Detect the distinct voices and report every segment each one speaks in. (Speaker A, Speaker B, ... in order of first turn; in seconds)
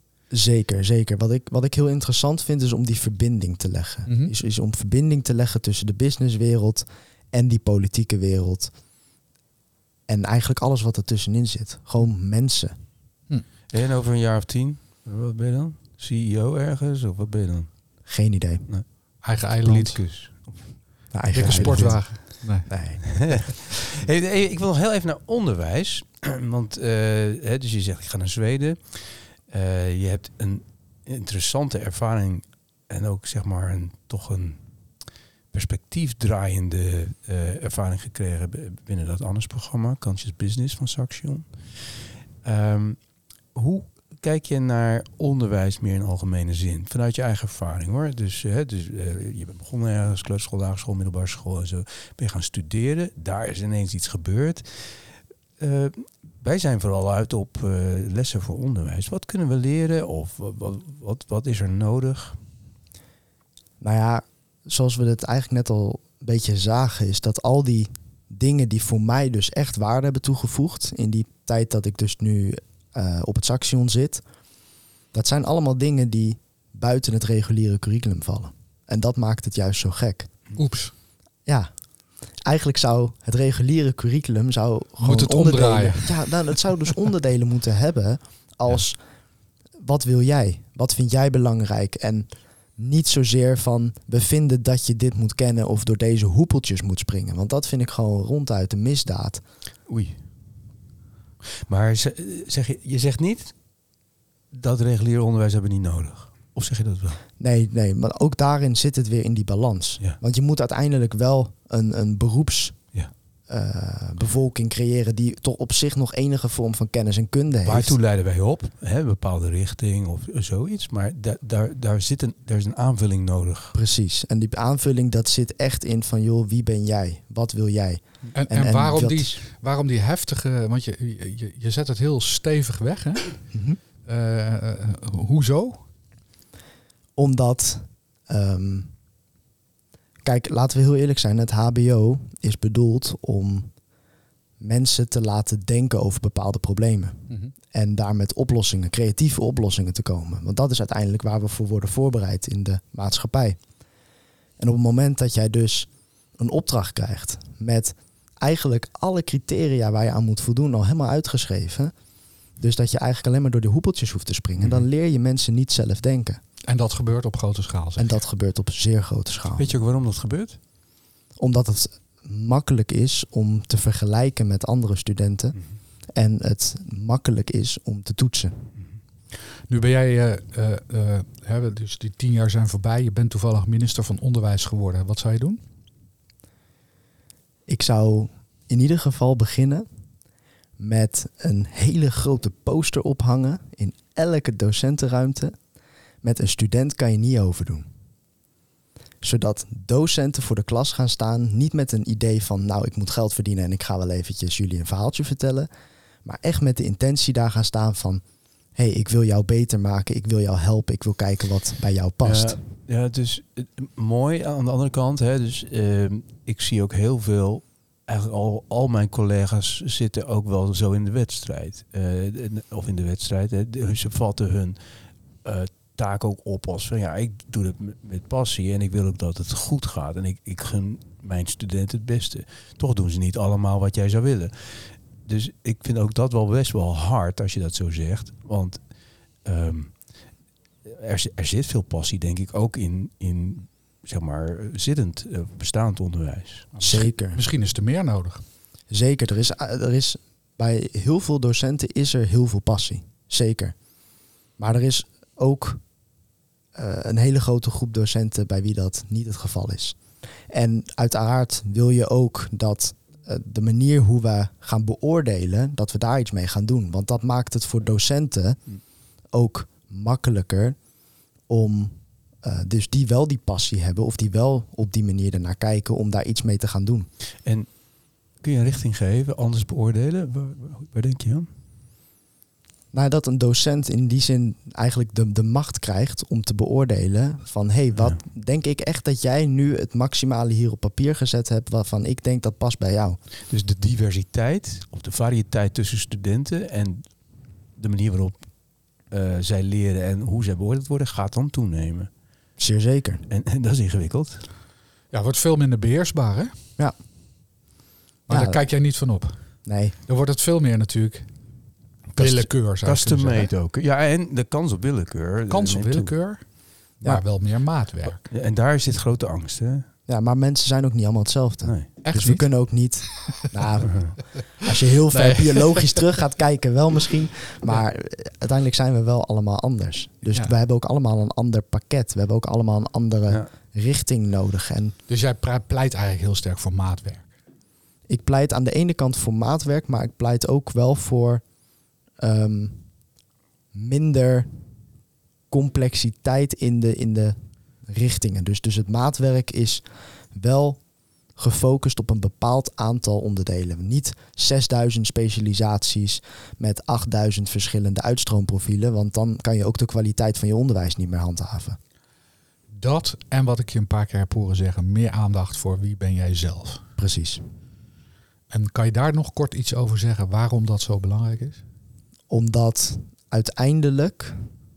Speaker A: 0.3-8.7, 10.1-12.7, 18.1-18.6, 21.1-23.4, 63.8-74.2, 75.1-80.3, 81.5-81.8, 82.4-89.0, 89.8-99.4, 107.4-112.9, 113.5-118.0, 123.7-129.4, 133.5-133.8, 137.2-138.9, 140.2-143.7, 144.6-153.6, 154.6-161.9, 162.6-166.4, 168.0-169.7, 171.4-175.6, 176.1-178.7, 187.7-189.8, 190.8-195.5, 196.2-197.9, 199.2-205.7, 206.2-208.2, 208.7-212.6, 246.8-247.4, 248.9-253.8, 254.6-255.8, 256.7-268.6, 269.3-270.8, 271.5-277.1, 282.9-293.2, 302.6-303.2, 308.3-308.6, 309.6-309.9, 320.1-334.9, 338.1-341.4, 342.2-342.9, 343.7-344.6, 345.5-350.8, 351.4-361.8, 367.0-367.4, 372.3-374.5
Speaker B: 4.1-4.3, 19.2-20.0, 21.3-23.1, 80.5-80.9, 85.0-86.5, 128.3-133.4, 134.0-135.8, 166.6-168.2, 179.7-185.6, 246.8-248.4, 305.1-306.5, 308.3-309.5, 310.1-311.3, 312.1-313.5, 315.5-318.3, 322.0-323.2, 325.1-326.2, 335.1-337.3, 362.7-366.8, 368.5-371.6
Speaker C: 13.7-17.7, 19.5-20.7, 21.4-22.0, 23.1-34.6, 35.5-55.0, 55.6-62.4, 99.9-100.3, 101.6-103.6, 104.5-107.2, 117.6-123.8, 164.6-164.8, 169.5-170.6, 212.2-224.8, 225.4-238.8, 239.4-240.1, 240.8-246.8, 277.4-277.7, 278.4-281.5, 293.5-302.1, 303.3-304.4, 312.1-316.1, 318.0-319.9, 321.6-321.9, 323.9-324.2